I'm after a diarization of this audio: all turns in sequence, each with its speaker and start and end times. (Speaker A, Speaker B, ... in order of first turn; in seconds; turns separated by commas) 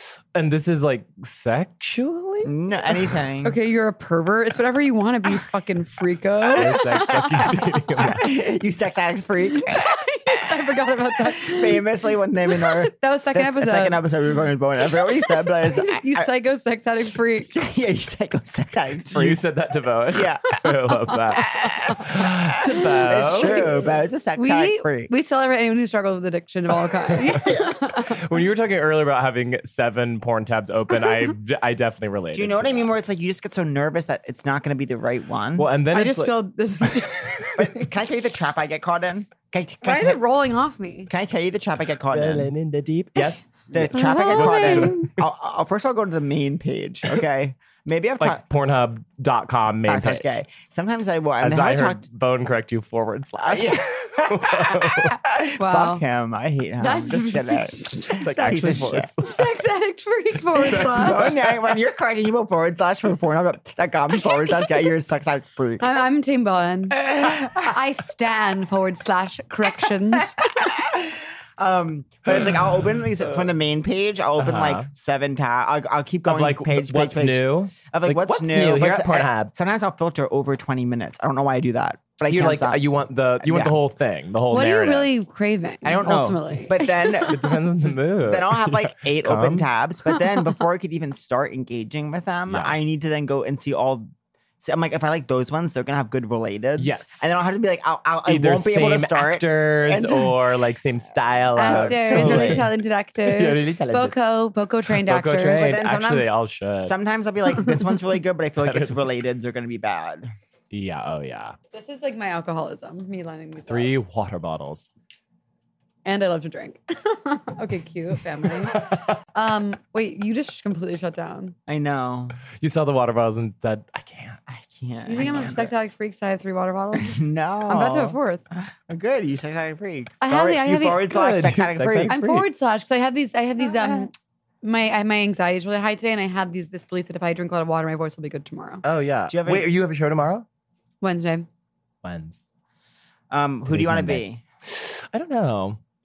Speaker A: 0.3-2.5, Speaker B: 2.4-3.6, Speaker C: 3.4-8.0, Speaker A: 6.6-8.3, Speaker B: 8.0-10.4, Speaker C: 9.5-11.8, Speaker B: 11.3-16.3, Speaker C: 12.5-14.0, Speaker C: 15.2-17.5, Speaker B: 17.4-19.4, Speaker A: 19.1-23.7, Speaker B: 20.1-20.6, Speaker C: 21.1-22.0, Speaker B: 21.5-22.3, Speaker B: 23.0-25.1, Speaker C: 23.4-23.7, Speaker C: 24.4-28.2, Speaker B: 27.2-27.7, Speaker A: 28.1-32.9, Speaker B: 32.3-35.7, Speaker A: 35.6-36.3, Speaker C: 35.9-37.9, Speaker B: 37.6-40.2, Speaker C: 39.8-41.1, Speaker B: 41.1-42.5, Speaker A: 42.1-45.1, Speaker B: 43.7-48.4, Speaker C: 43.9-45.1, Speaker A: 48.2-50.3, Speaker B: 49.9-52.0, Speaker A: 51.4-55.2, Speaker B: 53.4-59.1, Speaker C: 55.6-56.0, Speaker C: 56.8-61.2, Speaker A: 58.1-59.5, Speaker A: 60.5-61.5, Speaker B: 60.9-65.9, Speaker C: 64.3-64.6, Speaker C: 65.8-70.4, Speaker B: 67.0-67.7, Speaker B: 70.4-82.8, Speaker A: 74.4-74.9, Speaker A: 76.3-79.5, Speaker A: 82.3-85.1, Speaker B: 83.4-83.8, Speaker C: 84.5-87.3, Speaker B: 85.8-100.4, Speaker A: 87.3-89.7, Speaker A: 92.5-92.8, Speaker A: 96.8-97.6, Speaker A: 98.2-102.7, Speaker B: 101.5-102.7, Speaker C: 101.6-105.7, Speaker A: 103.2-104.2, Speaker A: 104.9-107.0, Speaker B: 105.5-110.3, Speaker A: 108.6-109.0, Speaker A: 110.7-111.6, Speaker C: 111.7-113.9, Speaker A: 113.7-114.9, Speaker C: 116.0-121.5, Speaker A: 118.7-119.1, Speaker B: 121.7-122.4, Speaker A: 122.6-124.4, Speaker B: 124.5-125.7, Speaker C: 125.0-128.4, Speaker B: 127.0-132.2, Speaker C: 130.2-131.1, Speaker A: 131.1-132.5, Speaker C: 132.1-138.8, Speaker A: 138.8-140.5, Speaker B: 139.3-139.7, Speaker C: 141.0-141.5, Speaker A: 142.0-142.4, Speaker B: 143.3-144.4, Speaker A: 143.7-145.8